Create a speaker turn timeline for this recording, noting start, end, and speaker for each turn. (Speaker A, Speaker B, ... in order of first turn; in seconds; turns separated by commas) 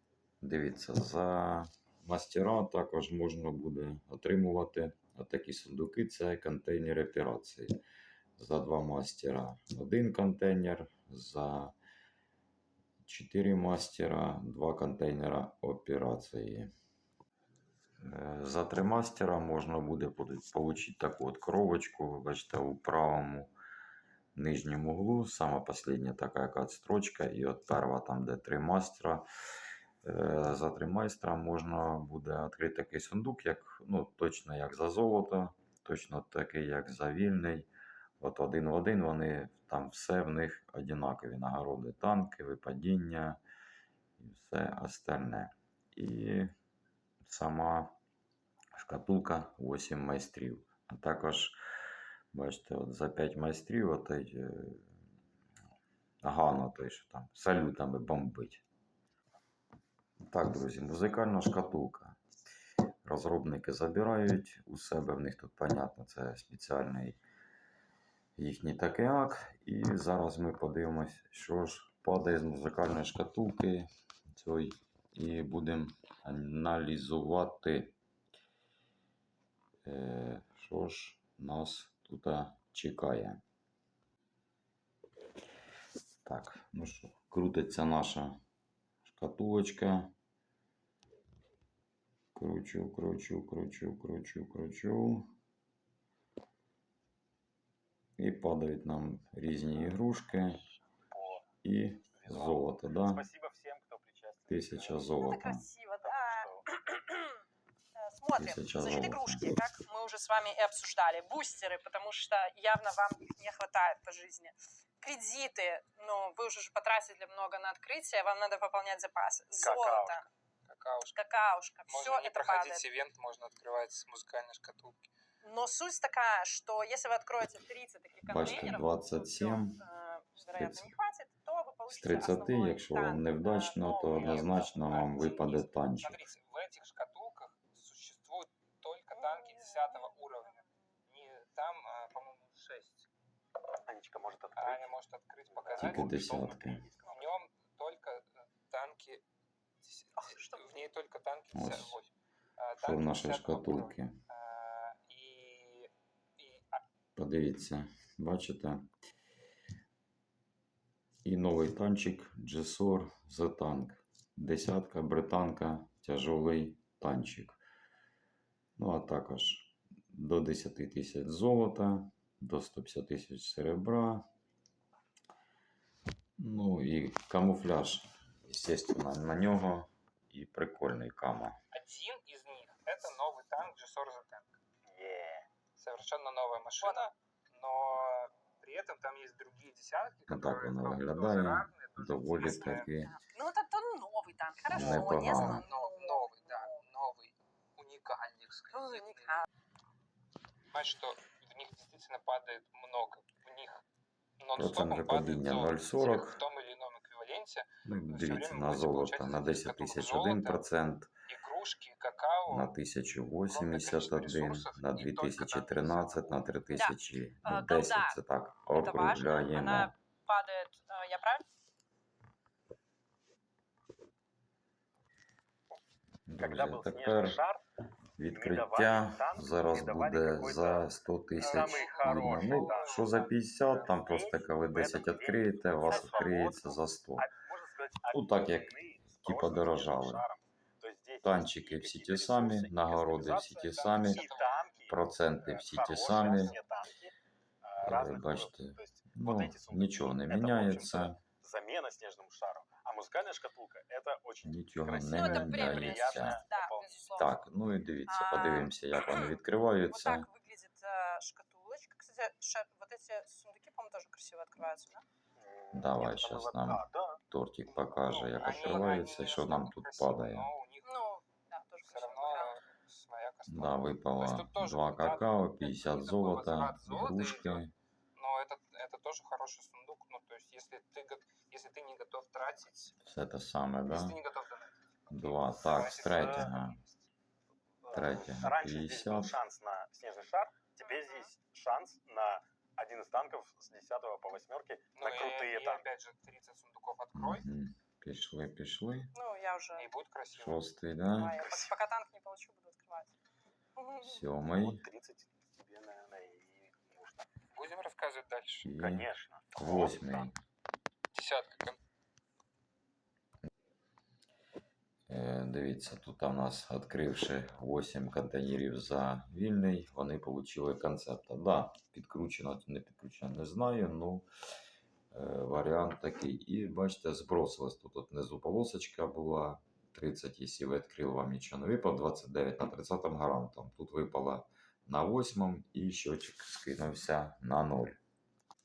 Speaker A: 0.4-7.8, Speaker A: 8.4-11.7, Speaker A: 13.1-16.7, Speaker A: 18.0-23.5, Speaker A: 24.4-29.3, Speaker A: 30.0-37.7, Speaker A: 38.2-43.4, Speaker A: 44.2-46.5, Speaker A: 47.2-47.9, Speaker A: 48.8-51.6, Speaker A: 52.3-54.9, Speaker A: 56.2-58.6, Speaker A: 60.2-62.2, Speaker A: 63.0-67.2, Speaker A: 68.4-78.0, Speaker A: 79.8-83.4, Speaker A: 86.2-88.4, Speaker A: 89.0-90.1, Speaker A: 92.3-95.3, Speaker A: 98.2-100.6, Speaker B: 101.1-101.5, Speaker A: 101.6-103.3, Speaker B: 102.2-105.0, Speaker A: 104.5-105.7, Speaker C: 105.2-107.4, Speaker B: 106.0-106.7, Speaker C: 108.0-120.2, Speaker A: 108.3-109.5, Speaker B: 119.6-120.3, Speaker D: 120.7-121.2, Speaker C: 121.1-122.8, Speaker D: 121.9-125.1, Speaker C: 125.4-135.5, Speaker A: 128.3-129.8, Speaker A: 130.5-130.9, Speaker A: 131.9-136.2, Speaker D: 134.2-143.1, Speaker C: 139.1-140.1, Speaker B: 143.9-144.9, Speaker D: 144.6-149.2, Speaker B: 145.5-147.4, Speaker A: 145.8-146.8, Speaker D: 149.8-156.8, Speaker C: 150.2-150.7, Speaker A: 151.5-152.0, Speaker A: 152.8-154.2, Speaker A: 157.2-158.9, Speaker A: 161.2-167.6, Speaker A: 168.8-174.2, Speaker A: 176.4-181.6, Speaker D: 181.7-184.6, Speaker B: 184.9-185.5, Speaker D: 185.8-192.9, Speaker C: 186.8-187.1, Speaker A: 190.3-193.2, Speaker C: 192.4-196.8, Speaker A: 194.7-195.7, Speaker D: 194.8-199.4, Speaker C: 198.7-199.5, Speaker D: 200.7-203.8, Speaker D: 204.4-210.6, Speaker A: 204.6-206.4, Speaker A: 207.8-211.1, Speaker D: 211.3-212.7, Speaker A: 212.5-219.9, Speaker D: 213.5-216.4, Speaker C: 217.4-218.2, Speaker C: 218.7-221.5, Speaker A: 226.3-227.4, Speaker B: 226.4-227.6, Speaker A: 228.2-237.3, Speaker B: 228.3-233.2, Speaker D: 231.4-233.3, Speaker B: 233.7-247.1, Speaker C: 235.9-236.4, Speaker A: 238.1-240.2, Speaker A: 241.2-244.3, Speaker D: 243.8-244.6, Speaker A: 244.9-246.6, Speaker D: 246.1-246.6, Speaker B: 247.6-257.2, Speaker A: 247.8-251.2, Speaker A: 254.4-256.4, Speaker C: 255.0-257.3, Speaker A: 257.2-260.3, Speaker C: 258.1-259.4, Speaker C: 259.9-265.0, Speaker B: 265.4-267.2, Speaker A: 265.7-270.5, Speaker D: 268.1-271.0, Speaker C: 270.8-272.6, Speaker D: 271.9-277.6, Speaker A: 273.5-277.7, Speaker D: 278.2-282.9, Speaker A: 283.0-284.2, Speaker D: 283.9-286.8, Speaker A: 285.1-286.8, Speaker B: 285.9-286.5, Speaker B: 287.8-295.9, Speaker A: 287.9-289.4, Speaker C: 290.9-291.3, Speaker D: 294.9-297.5, Speaker A: 297.1-299.1, Speaker C: 299.1-299.9, Speaker D: 299.8-300.6, Speaker A: 300.4-301.4, Speaker C: 301.1-303.1, Speaker B: 301.4-301.7, Speaker C: 303.8-304.2, Speaker A: 304.0-304.9, Speaker B: 304.5-307.3, Speaker D: 307.6-308.7, Speaker A: 308.6-310.4, Speaker B: 308.8-310.3, Speaker D: 311.1-311.8, Speaker A: 315.1-324.3, Speaker A: 325.1-338.0